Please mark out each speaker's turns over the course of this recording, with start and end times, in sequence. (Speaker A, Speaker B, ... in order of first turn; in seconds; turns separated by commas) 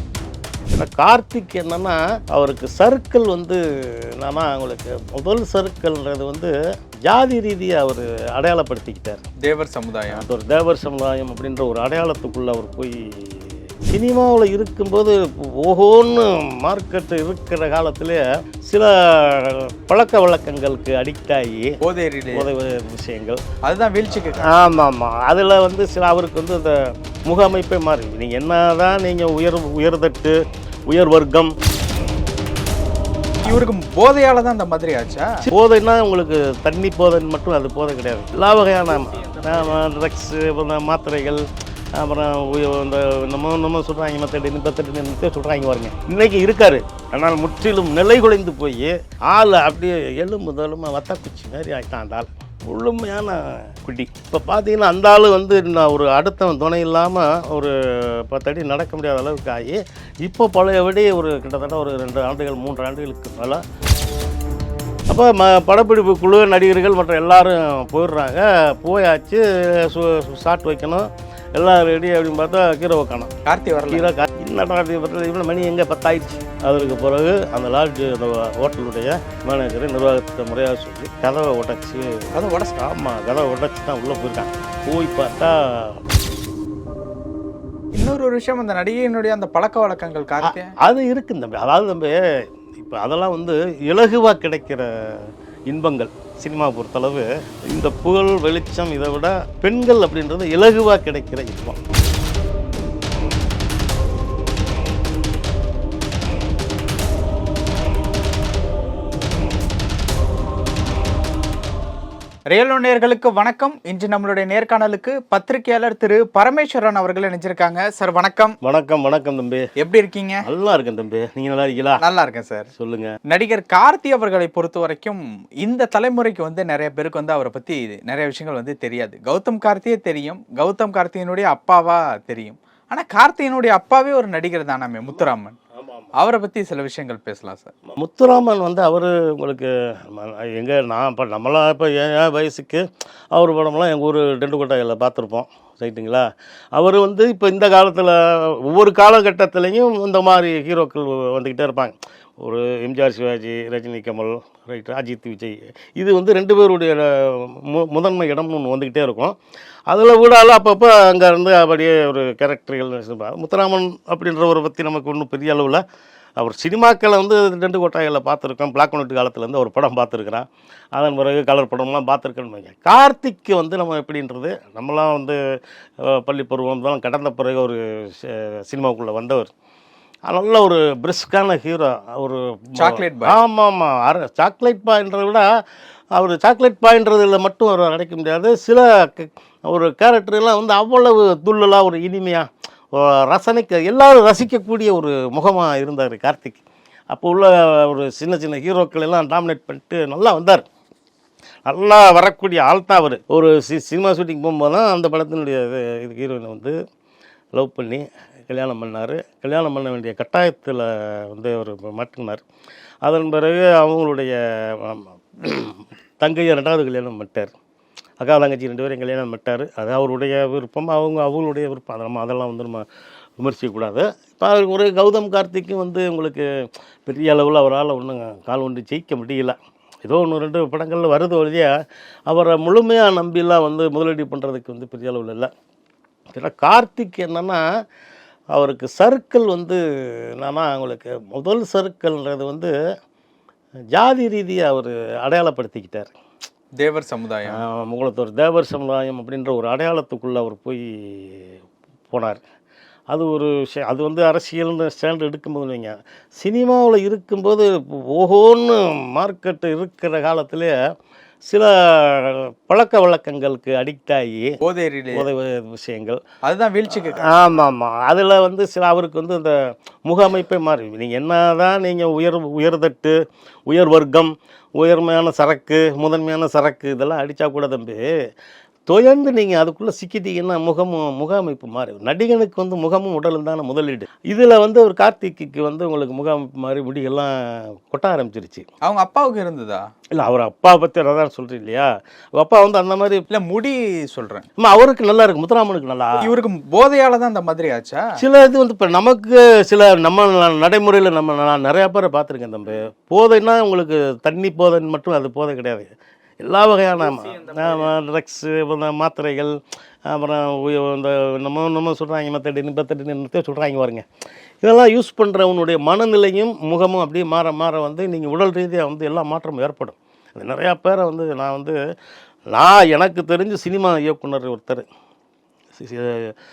Speaker A: 0.7-6.5, Speaker A: 7.0-9.2, Speaker B: 9.4-10.2, Speaker A: 10.1-21.8, Speaker B: 21.8-22.5, Speaker A: 22.3-23.4, Speaker B: 23.6-24.5, Speaker A: 24.4-31.5, Speaker B: 33.4-35.5, Speaker A: 35.5-41.4, Speaker A: 42.0-63.6, Speaker A: 65.1-73.3, Speaker B: 73.4-74.2, Speaker A: 73.9-86.0, Speaker B: 82.3-82.8, Speaker B: 87.9-90.7, Speaker A: 90.4-92.2, Speaker A: 92.8-101.8, Speaker B: 112.5-118.6, Speaker A: 118.6-119.7, Speaker B: 119.8-120.4, Speaker A: 120.4-122.0, Speaker B: 122.0-122.7, Speaker A: 122.8-123.1, Speaker B: 123.3-135.6, Speaker A: 135.8-136.1, Speaker B: 136.1-137.7, Speaker A: 137.9-159.3, Speaker A: 159.9-165.8, Speaker A: 166.4-175.4, Speaker A: 176.0-179.5, Speaker A: 180.3-185.4, Speaker B: 182.8-183.4, Speaker A: 186.1-200.6, Speaker A: 201.7-206.7, Speaker A: 207.6-212.4, Speaker A: 213.0-217.5, Speaker A: 218.2-222.8, Speaker A: 223.4-226.5, Speaker A: 227.1-231.7, Speaker A: 232.3-235.5, Speaker A: 236.3-237.6, Speaker A: 238.5-239.8, Speaker A: 240.4-242.7, Speaker A: 243.9-246.1, Speaker B: 246.8-247.6, Speaker A: 247.5-251.5, Speaker A: 252.1-252.4, Speaker A: 253.1-260.7, Speaker A: 261.5-264.6, Speaker B: 264.6-265.2, Speaker A: 265.1-266.2, Speaker B: 266.4-267.3, Speaker A: 266.9-273.1, Speaker A: 273.7-278.1, Speaker A: 278.9-288.7, Speaker B: 288.8-289.9, Speaker A: 290.1-293.2, Speaker B: 293.3-294.4, Speaker A: 294.6-296.3, Speaker B: 296.2-298.1, Speaker A: 298.2-305.9, Speaker A: 306.4-309.6, Speaker B: 307.3-307.8, Speaker A: 310.1-314.0, Speaker A: 314.6-321.8, Speaker A: 322.5-324.8, Speaker A: 325.8-326.3